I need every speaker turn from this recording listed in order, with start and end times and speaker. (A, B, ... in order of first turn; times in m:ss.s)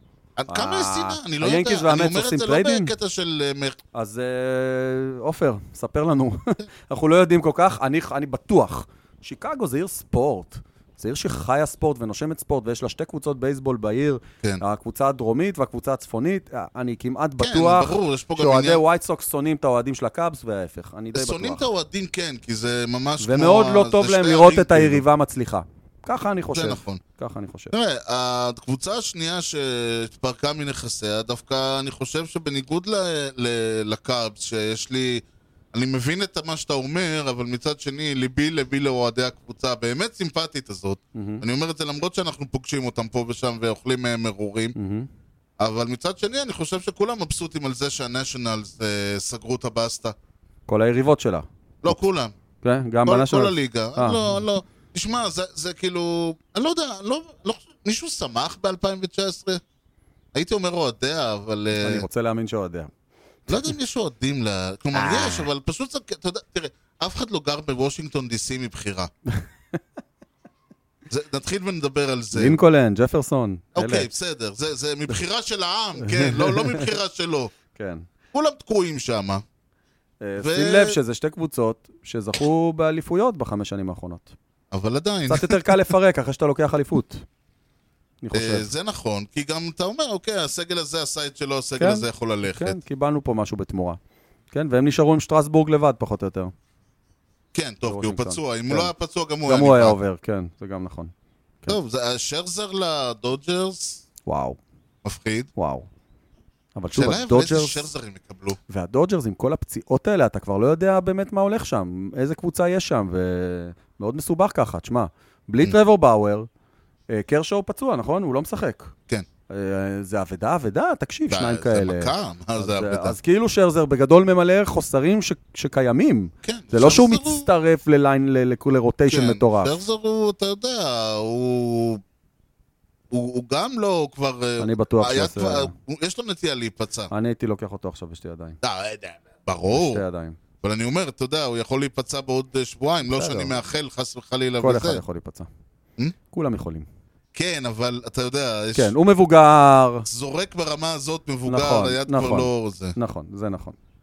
0:00.4-0:03.8 A
0:00.5-0:02.9 B
0:03.9-0:21.7 B
0:17.4-0:18.8 A
0:21.1-0:25.0 A
0:23.2-0:27.7 B
0:26.5-0:27.0 A
0:27.7-0:44.8 A
0:41.2-0:41.4 B
0:44.8-0:45.1 B
0:45.6-0:50.2 A
0:50.7-0:52.0 B
0:51.8-0:52.4 A
0:52.6-0:54.4 B
0:53.0-0:59.6 A
1:00.3-1:02.0 A
1:01.8-1:02.9 B
1:03.5-1:09.1 A
1:04.9-1:05.5 B
1:09.3-1:09.8 B
1:11.1-1:12.6 A
1:12.3-1:14.1 B
1:13.8-1:17.5 A
1:16.0-1:16.9 B
1:17.7-1:18.0 B
1:18.3-1:19.4 A
1:20.2-1:24.3 B
1:20.4-1:21.0 A
1:24.7-1:25.7 A
1:25.3-1:27.2 B
1:28.2-1:28.7 B
1:28.3-1:32.8 A
1:31.8-1:34.0 B
1:34.5-1:36.5 B
1:37.5-1:40.0 A
1:37.8-1:38.9 B
1:39.5-1:41.8 B
1:41.7-1:44.0 A
1:44.3-1:44.6 B
1:45.0-1:45.5 A
1:45.6-1:45.9 B
1:46.8-1:47.9 B
1:46.9-1:48.6 A
1:48.7-1:56.5 B
1:57.1-1:58.9 B
1:59.5-2:09.7 B
2:01.3-2:03.2 A
2:06.4-2:07.5 A
2:09.1-2:12.0 A
2:13.1-2:17.1 A
2:14.6-2:15.7 B
2:17.1-2:18.6 B
2:18.6-2:20.0 A
2:19.7-2:20.4 B
2:20.6-2:25.0 A
2:23.0-2:23.6 B
2:24.6-2:25.5 B
2:26.3-2:26.9 B
2:27.3-2:28.9 A
2:28.8-2:30.1 B
2:30.1-2:33.0 A
2:31.5-2:33.8 B